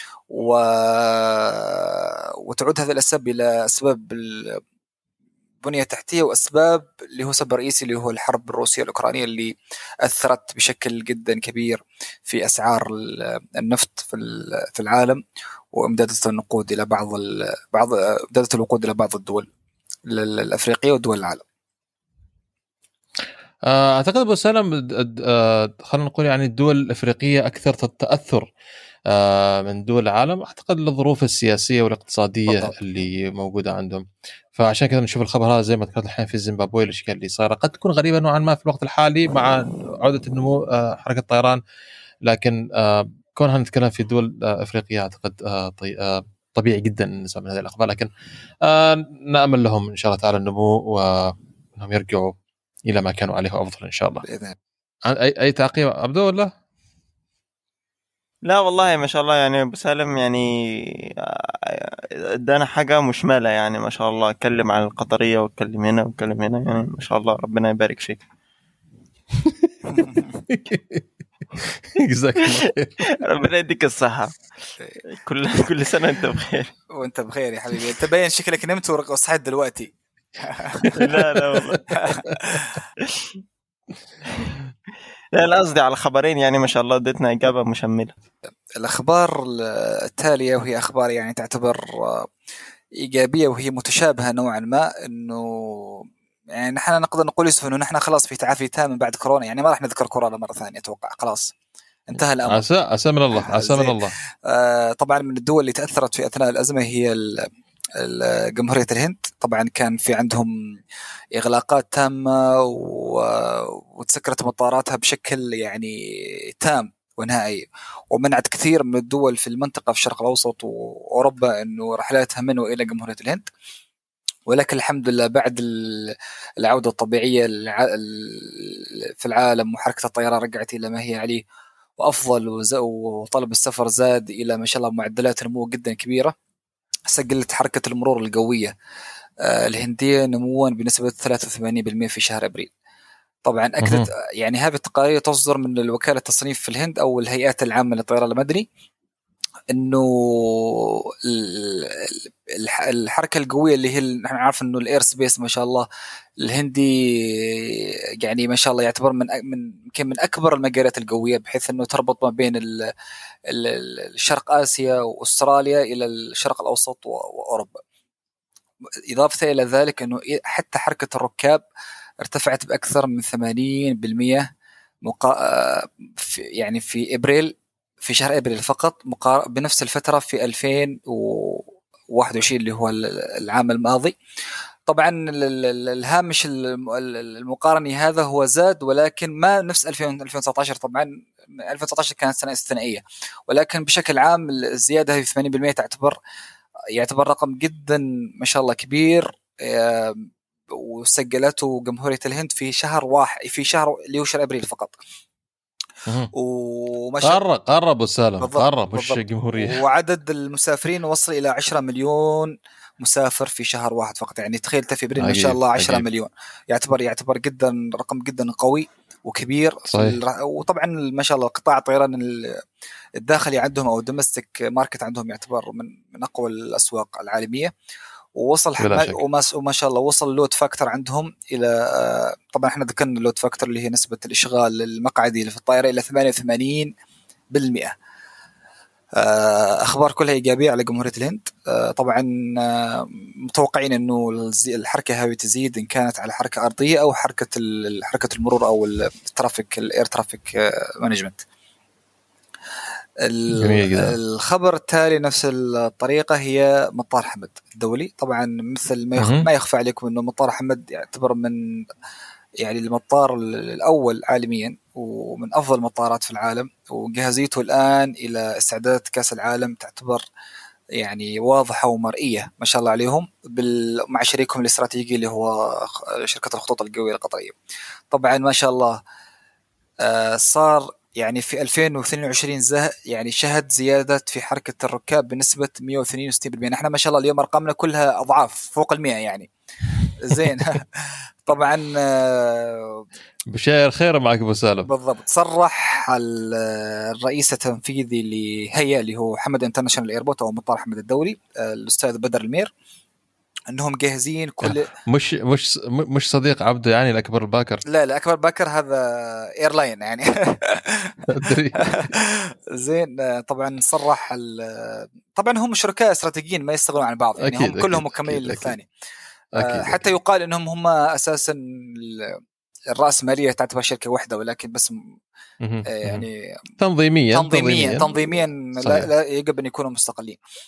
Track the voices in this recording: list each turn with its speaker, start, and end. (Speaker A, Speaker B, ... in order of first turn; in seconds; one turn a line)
Speaker A: 0.3-4.6
Speaker A: 5.6-15.2
Speaker A: 15.7-19.5
Speaker A: 20.1-21.4
Speaker B: 23.7-28.5
Speaker B: 29.1-34.0
Speaker A: 32.5-32.7
Speaker B: 34.5-41.6
Speaker B: 42.2-48.1
Speaker B: 48.6-54.2
Speaker A: 54.2-54.5
Speaker B: 55.0-56.5
Speaker C: 58.5-68.2
Speaker B: 69.4-71.0
Speaker B: 72.0-72.9
Speaker C: 73.2-74.4
Speaker C: 75.1-76.7
Speaker A: 76.9-80.9
Speaker B: 80.8-82.6
Speaker C: 80.9-82.0
Speaker A: 81.9-82.8
Speaker C: 83.0-83.4
Speaker C: 85.3-88.1
Speaker A: 88.8-92.3
Speaker A: 93.0-101.5
Speaker A: 102.1-102.6
Speaker B: 102.4-104.1
Speaker A: 103.3-107.5
Speaker A: 108.0-110.5
Speaker A: 111.3-123.5
Speaker A: 124.5-131.4
Speaker A: 132.0-136.3
Speaker A: 137.1-138.7
Speaker A: 139.4-142.7
Speaker A: 143.4-148.7
Speaker B: 143.8-144.1
Speaker A: 149.7-155.9
Speaker A: 156.4-162.9
Speaker A: 163.5-167.8
Speaker A: 169.1-171.6
Speaker A: 172.2-174.4
Speaker A: 175.0-184.2
Speaker A: 184.9-196.2
Speaker A: 196.9-205.0
Speaker A: 206.3-207.4
Speaker B: 207.2-209.8
Speaker A: 208.4-222.6
Speaker B: 215.2-216.0
Speaker B: 219.9-220.2
Speaker A: 223.2-227.7
Speaker A: 228.3-236.9
Speaker B: 228.8-229.2
Speaker A: 237.5-237.9
Speaker A: 239.2-251.4
Speaker A: 253.2-261.6
Speaker B: 253.6-254.2
Speaker B: 259.2-259.5
Speaker A: 262.6-270.2
Speaker A: 271.0-277.6
Speaker A: 278.1-279.0
Speaker A: 280.0-289.5
Speaker A: 290.2-293.0
Speaker B: 293.5-294.9
Speaker A: 294.9-302.7
Speaker A: 303.7-304.9
Speaker B: 304.6-307.8
Speaker A: 307.9-318.9
Speaker B: 311.3-312.1
Speaker B: 317.4-318.8
Speaker A: 319.6-322.4
Speaker B: 319.6-320.0
Speaker A: 322.9-325.0
Speaker B: 325.6-326.2
Speaker A: 325.9-326.6
Speaker B: 326.8-328.1
Speaker A: 327.3-330.4
Speaker B: 328.8-329.1